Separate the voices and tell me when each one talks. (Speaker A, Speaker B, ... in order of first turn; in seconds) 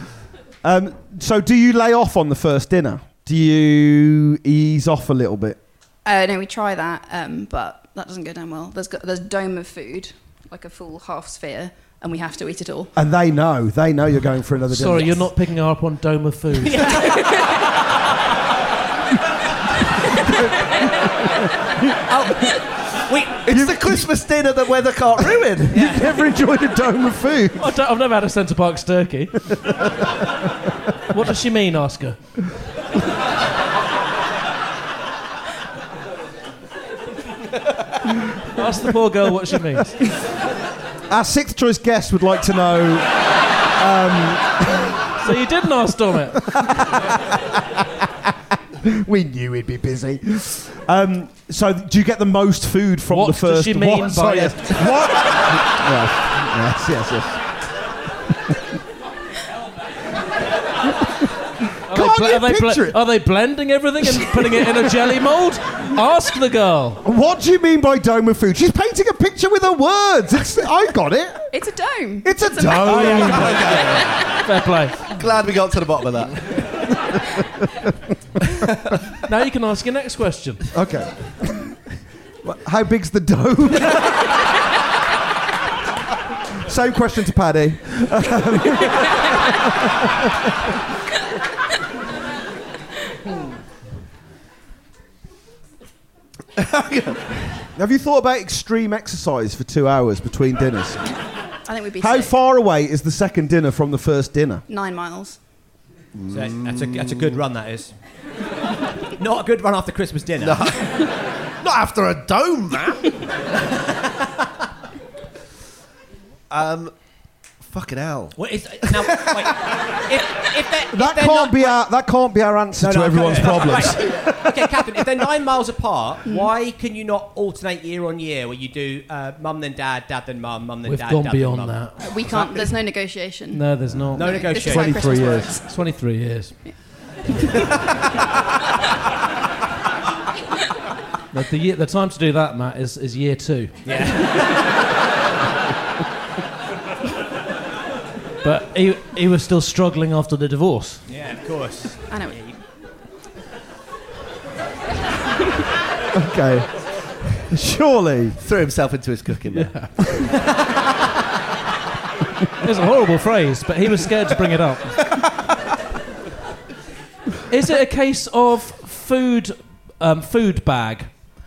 Speaker A: 0.6-5.6, 12.9-15.3, 23.5-24.1, 25.7-27.7, 29.5-30.1, 41.1-43.1, 43.7-45.1, 46.4-48.3, 48.8-57.4, 60.8-61.3, 61.9-63.0, 64.0-64.8, 67.0-71.5, 72.2-73.8, 80.7-81.8, 82.4-84.3, 86.6-90.3, 97.8-101.0, 102.0-104.6, 120.9-124.3, 134.6-135.5, 156.1-156.7, 157.5-158.4
Speaker B: 6.0-12.9, 71.5-73.3, 101.7-102.3, 104.7-105.4, 132.0-135.6, 152.1-152.5
Speaker C: 14.7-17.2, 27.6-29.4, 31.1-32.2, 38.5-40.0, 45.2-46.5, 53.1-55.0, 61.9-67.0, 72.8-73.6, 74.4-75.1, 79.2-80.6, 130.8-132.0, 133.5-136.6, 141.3-144.4, 148.4-151.0, 159.5-159.9, 162.6-165.0, 167.5-171.2
Speaker D: 16.6-17.5, 22.1-22.5, 23.0-23.4, 25.7-26.0, 106.3-107.9, 109.2-110.6, 118.3-121.8, 122.8-132.7, 134.1-135.2, 143.8-144.5, 151.1-152.6
Speaker E: 23.4-25.9, 72.8-74.4, 75.0-76.9, 96.5-97.4, 106.2-107.4, 110.4-113.2, 116.5-116.9, 117.6-118.3, 158.4-159.8